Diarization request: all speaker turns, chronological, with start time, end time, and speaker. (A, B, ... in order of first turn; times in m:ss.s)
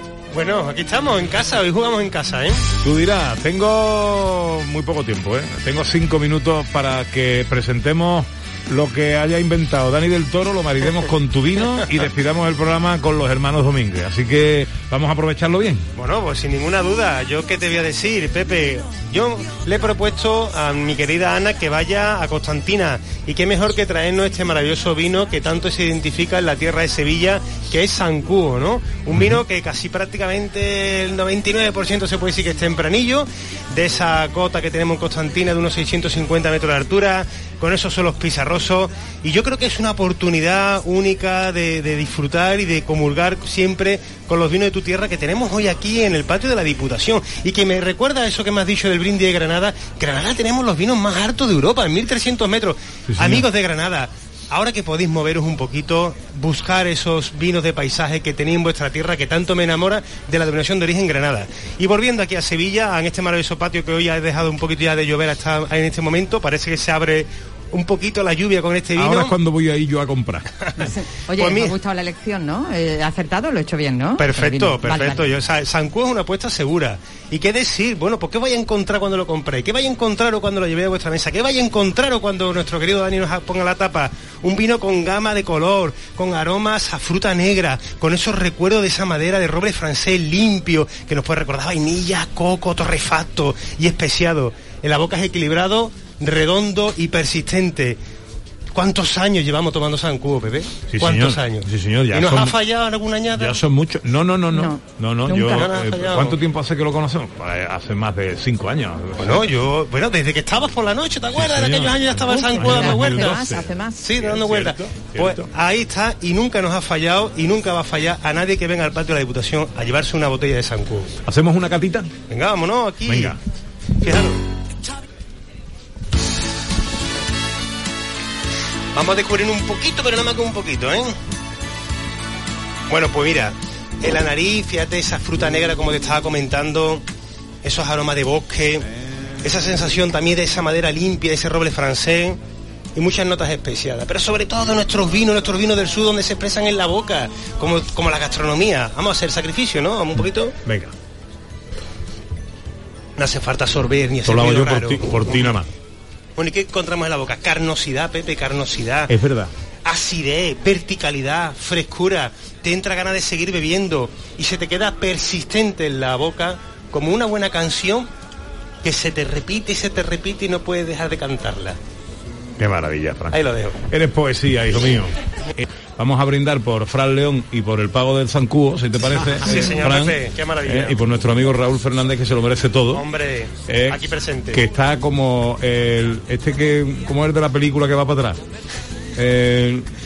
0:00.3-0:02.6 A
0:02.8-0:15.8 B
0:16.0-1:09.4 A
0:53.1-0:53.4 B
1:09.0-1:10.5 B
1:10.6-1:11.8 A
1:10.8-1:15.3 C
1:14.2-1:38.0 A
1:38.7-1:43.6 A
1:40.9-1:42.5 B
1:43.4-1:49.5 B
1:44.5-1:45.7 C
1:45.4-1:46.4 A
1:49.2-2:01.1 A
1:51.3-1:55.5 B
1:52.2-1:54.1 C
2:01.2-2:02.1 B
2:02.3-2:03.4 A
2:03.1-2:03.4 B
2:04.0-2:04.4 A
2:08.9-2:11.2 A
2:12.9-2:17.0 A
2:17.6-2:18.8 A
2:19.4-2:22.4 A
2:23.0-2:30.6 A
2:30.6-2:30.9 B
2:33.2-2:35.3 A
2:34.3-2:35.7 B
2:36.4-2:39.1 A
2:39.1-2:39.5 B
2:39.8-2:48.1 A
2:48.8-2:51.8 A
2:52.6-2:53.4 B
2:53.3-2:53.8 A
2:53.9-3:03.0 B
2:59.3-3:01.0 A
3:02.9-3:04.6 A
3:03.7-3:04.0 B
3:04.5-3:08.4 B
3:09.2-3:09.9 B